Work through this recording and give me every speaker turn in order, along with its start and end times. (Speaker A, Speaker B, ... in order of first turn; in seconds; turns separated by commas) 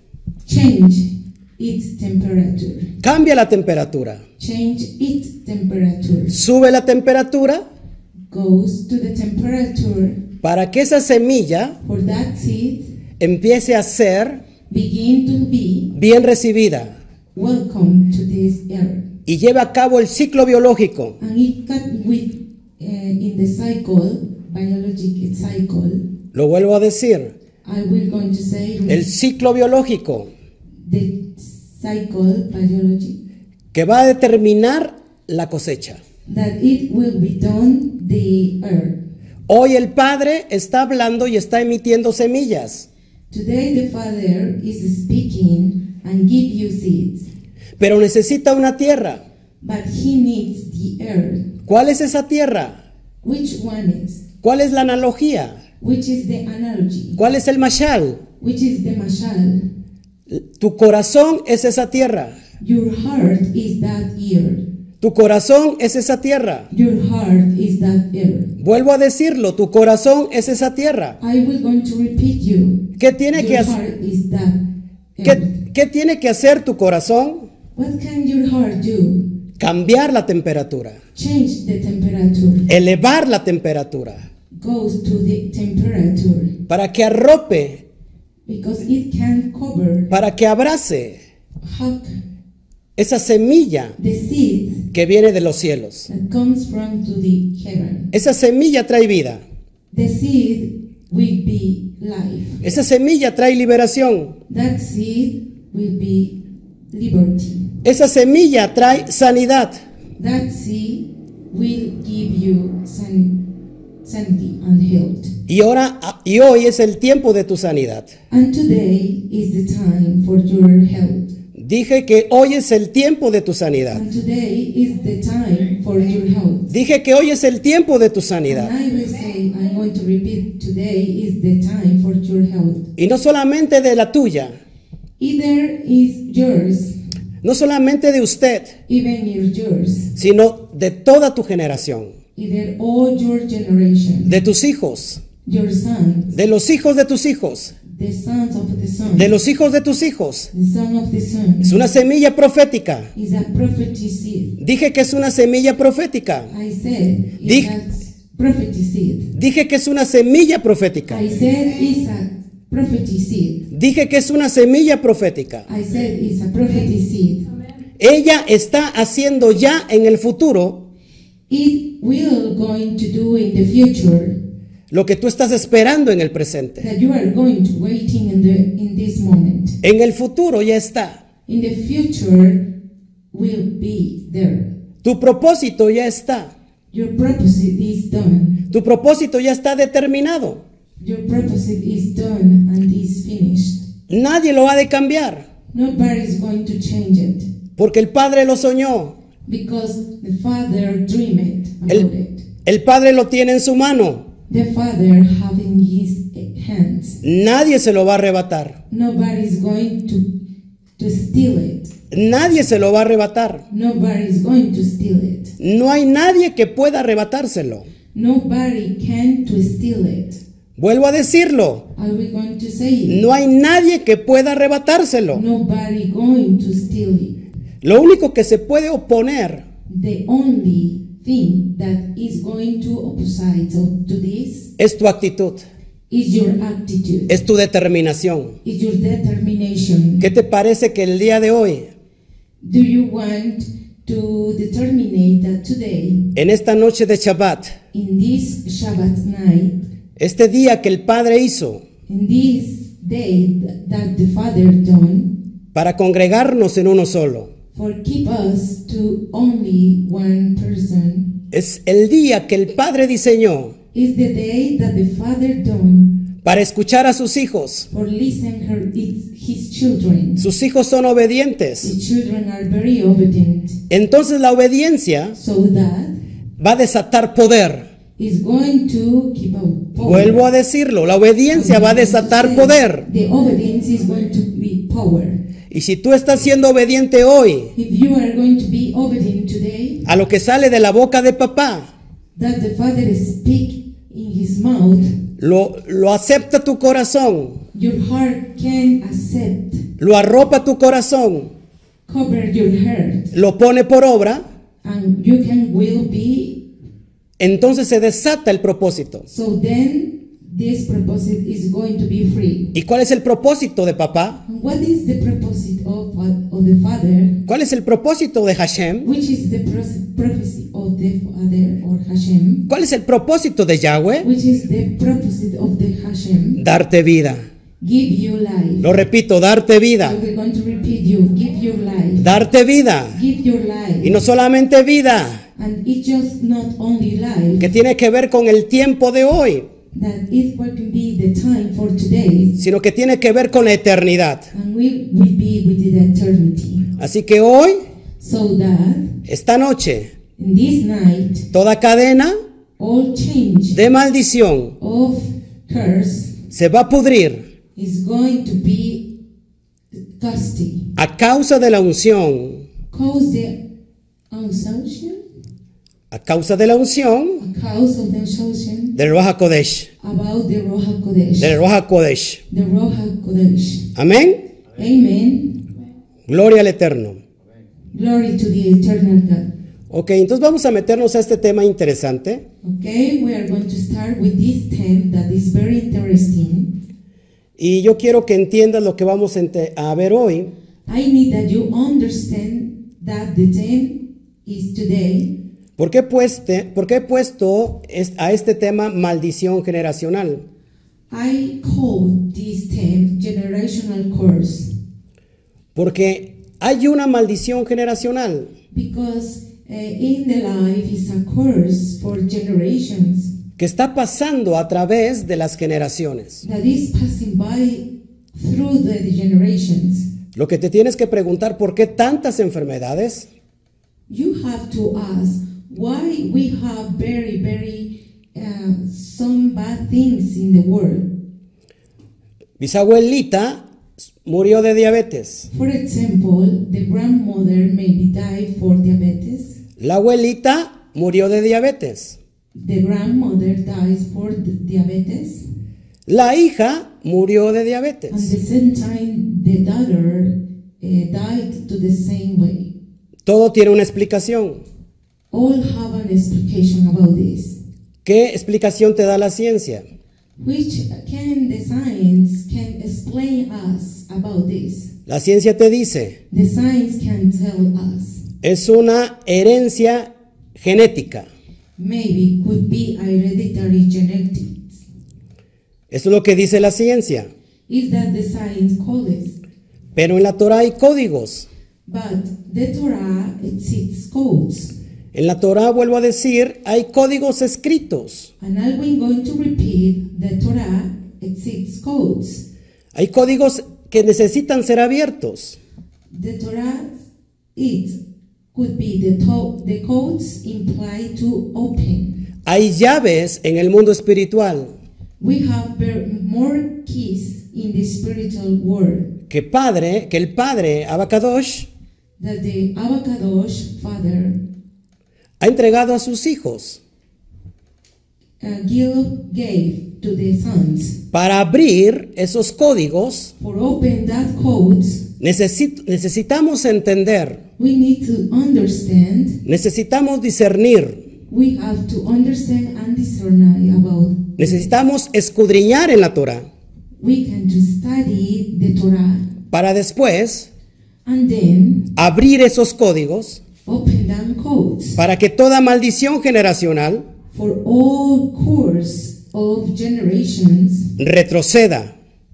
Speaker A: 0.5-2.9, Speaker B: 3.0-4.2, Speaker A: 4.4-6.4, Speaker B: 6.3-7.6, Speaker A: 8.3-10.2, Speaker B: 10.4-11.8, Speaker A: 11.8-12.9, Speaker B: 13.2-14.4, Speaker A: 14.7-15.9, Speaker B: 15.9-16.9, Speaker A: 17.3-19.1, Speaker B: 19.3-21.2, Speaker A: 21.2-26.1, Speaker B: 26.3-27.3, Speaker A: 27.6-29.1, Speaker B: 28.9-30.3, Speaker A: 30.8-33.2, Speaker B: 33.7-36.0, Speaker A: 36.3-39.0, Speaker B: 39.5-42.9, Speaker A: 43.3-47.3, Speaker B: 47.8-49.2, Speaker A: 49.6-51.5, Speaker B: 51.7-52.8, Speaker A: 53.2-54.2, Speaker B: 54.4-55.6, Speaker A: 55.8-57.2, Speaker B: 57.2-58.2, Speaker A: 58.4-59.7, Speaker B: 60.3-62.4, Speaker A: 62.6-64.6, Speaker B: 65.0-66.7, Speaker A: 66.7-68.5, Speaker B: 68.6-71.2, Speaker A: 71.2-74.6, Speaker B: 73.0-73.8, Speaker A: 75.2-75.6, Speaker B: 75.2-77.5, Speaker A: 77.8-79.2, Speaker B: 79.6-81.0, Speaker A: 81.1-82.7, Speaker B: 82.7-84.2, Speaker A: 84.5-86.6, Speaker B: 86.7-87.8, Speaker A: 88.5-90.1, Speaker B: 90.1-91.2, Speaker A: 91.6-92.1, Speaker B: 93.0-94.0, Speaker A: 94.0-94.9, Speaker B: 94.9-96.1, Speaker A: 96.1-98.1, Speaker B: 98.1-99.4, Speaker A: 99.9-102.6, Speaker B: 102.6-104.3, Speaker A: 104.5-106.4, Speaker A: 106.9-107.8, Speaker B: 107.8-109.8, Speaker A: 110.2-113.4, Speaker A: 114.0-115.3, Speaker B: 115.5-118.1, Speaker A: 118.3-121.3, Speaker B: 121.5-124.0, Speaker A: 123.9-126.7, Speaker B: 126.7-128.7, Speaker A: 128.5-132.9, Speaker B: 133.0-134.6, Speaker A: 135.2-136.9, Speaker B: 137.4-138.7, Speaker A: 138.9-140.1, Speaker B: 140.2-142.1, Speaker A: 142.3-144.3, Speaker B: 144.2-145.2, Speaker A: 145.4-146.3, Speaker B: 146.3-147.7, Speaker A: 147.8-149.3, Speaker B: 149.1-150.5, Speaker A: 150.5-151.8, Speaker B: 151.6-153.1, Speaker A: 153.1-154.6, Speaker B: 154.6-156.5, Speaker A: 156.5-159.3, Speaker B: 157.4-157.7, Speaker B: 159.3-161.2, Speaker A: 161.1-163.7, Speaker B: 163.7-165.7, Speaker A: 165.7-167.5, Speaker B: 168.0-170.8, Speaker A: 171.5-174.4, Speaker B: 174.9-176.9, Speaker A: 176.8-179.8, Speaker B: 179.8-181.2, Speaker A: 181.5-182.7, Speaker A: 183.3-184.7, Speaker B: 185.0-186.5, Speaker A: 186.9-188.6, Speaker B: 188.7-190.6, Speaker A: 191.0-193.8, Speaker B: 194.1-195.4, Speaker A: 195.7-197.5, Speaker B: 197.8-199.2, Speaker A: 199.4-202.4, Speaker B: 202.6-204.2, Speaker A: 204.5-207.2, Speaker B: 207.2-208.8, Speaker A: 208.9-210.3, Speaker A: 211.0-211.9, Speaker B: 212.1-213.7, Speaker A: 213.7-215.5, Speaker B: 215.6-217.8, Speaker A: 218.1-220.4, Speaker B: 220.8-221.9, Speaker A: 221.9-223.2, Speaker B: 223.1-225.4, Speaker A: 225.3-227.4, Speaker B: 227.8-229.6, Speaker A: 229.9-234.7, Speaker B: 234.8-235.6, Speaker A: 236.1-237.3, Speaker B: 237.3-238.6, Speaker A: 238.6-240.3, Speaker B: 240.2-241.9, Speaker A: 242.6-246.3, Speaker B: 246.3-247.7, Speaker A: 247.9-249.8, Speaker B: 250.2-251.8, Speaker A: 252.1-255.3, Speaker B: 255.7-257.5, Speaker A: 257.7-261.4, Speaker B: 261.5-263.8, Speaker A: 263.9-266.2, Speaker B: 266.4-267.9, Speaker A: 267.9-270.4, Speaker B: 270.4-271.9, Speaker A: 271.8-273.8, Speaker B: 273.9-275.4, Speaker A: 275.3-276.1, Speaker B: 276.6-277.9, Speaker A: 278.2-280.5, Speaker B: 280.0-283.1, Speaker A: 281.5-285.4, Speaker B: 285.7-287.7, Speaker A: 287.8-290.1, Speaker B: 290.1-291.9, Speaker A: 292.4-295.1, Speaker B: 295.4-297.6, Speaker A: 297.7-299.9, Speaker B: 300.0-301.5, Speaker A: 302.1-303.3, Speaker B: 303.3-304.4, Speaker A: 304.8-306.6, Speaker B: 307.4-309.3, Speaker A: 309.3-312.7, Speaker B: 312.7-314.4, Speaker A: 314.5-317.4, Speaker B: 317.5-319.1, Speaker A: 319.0-322.6, Speaker B: 322.7-324.3, Speaker A: 324.2-326.6, Speaker B: 326.6-327.4, Speaker A: 327.8-329.0, Speaker B: 328.8-330.2, Speaker A: 330.0-332.3, Speaker B: 332.2-333.2, Speaker A: 333.1-334.2, Speaker B: 334.0-335.4, Speaker A: 335.6-337.7, Speaker B: 337.6-339.7, Speaker A: 339.9-342.6, Speaker B: 342.6-344.5, Speaker A: 344.5-346.9, Speaker B: 347.0-347.8, Speaker A: 348.2-349.1, Speaker B: 349.2-350.1, Speaker A: 350.4-351.5, Speaker B: 351.5-352.3, Speaker A: 352.8-353.8, Speaker B: 353.7-354.7, Speaker A: 354.8-356.4, Speaker B: 356.5-357.4, Speaker A: 357.8-359.1, Speaker A: 360.2-360.9, Speaker B: 360.9-362.6, Speaker A: 362.9-363.6, Speaker A: 364.3-365.2, Speaker B: 366.1-367.4, Speaker A: 367.4-369.0, Speaker B: 368.9-369.9, Speaker A: 370.0-371.6, Speaker B: 371.4-372.4, Speaker A: 372.5-373.9, Speaker B: 373.9-374.4, Speaker A: 374.8-375.6, Speaker B: 376.3-377.2, Speaker A: 377.9-379.5, Speaker B: 379.9-382.4, Speaker A: 382.6-386.7, Speaker B: 387.6-390.5, Speaker A: 390.9-395.3, Speaker B: 395.8-400.4, Speaker A: 401.1-404.7, Speaker B: 405.7-408.5, Speaker A: 408.7-413.3, Speaker B: 413.6-416.4, Speaker A: 416.4-420.1, Speaker B: 420.3-423.3, Speaker A: 424.1-431.1, Speaker B: 432.6-433.6, Speaker B: 434.2-435.5, Speaker A: 435.5-439.6, Speaker B: 439.8-442.2, Speaker A: 442.5-445.4, Speaker B: 446.1-448.3, Speaker A: 448.1-452.7, Speaker B: 453.2-454.6, Speaker A: 455.3-457.6, Speaker B: 458.0-459.8, Speaker A: 460.4-464.9, Speaker B: 465.1-466.2, Speaker A: 466.3-468.2, Speaker B: 468.4-471.3, Speaker A: 471.8-474.8, Speaker B: 475.9-477.3, Speaker A: 477.7-479.4, Speaker B: 479.9-481.5, Speaker A: 481.9-484.7, Speaker B: 485.1-488.3, Speaker A: 488.4-492.4, Speaker B: 492.9-495.6, Speaker A: 496.1-496.9, Speaker A: 497.5-498.0, Speaker A: 498.5-502.2, Speaker B: 502.4-504.7, Speaker A: 505.2-509.1, Speaker B: 509.3-511.7, Speaker A: 512.2-514.4, Speaker B: 515.4-516.8, Speaker A: 518.4-521.0, Speaker B: 521.1-523.3, Speaker A: 523.4-525.0, Speaker B: 525.2-527.4, Speaker A: 527.6-529.4, Speaker B: 529.4-531.0, Speaker A: 531.3-534.7, Speaker B: 534.4-536.5, Speaker A: 537.0-539.3, Speaker B: 539.5-540.5, Speaker A: 541.0-541.9, Speaker B: 542.0-543.4, Speaker A: 543.6-545.0, Speaker B: 545.0-547.0, Speaker A: 547.3-550.9, Speaker B: 551.0-551.9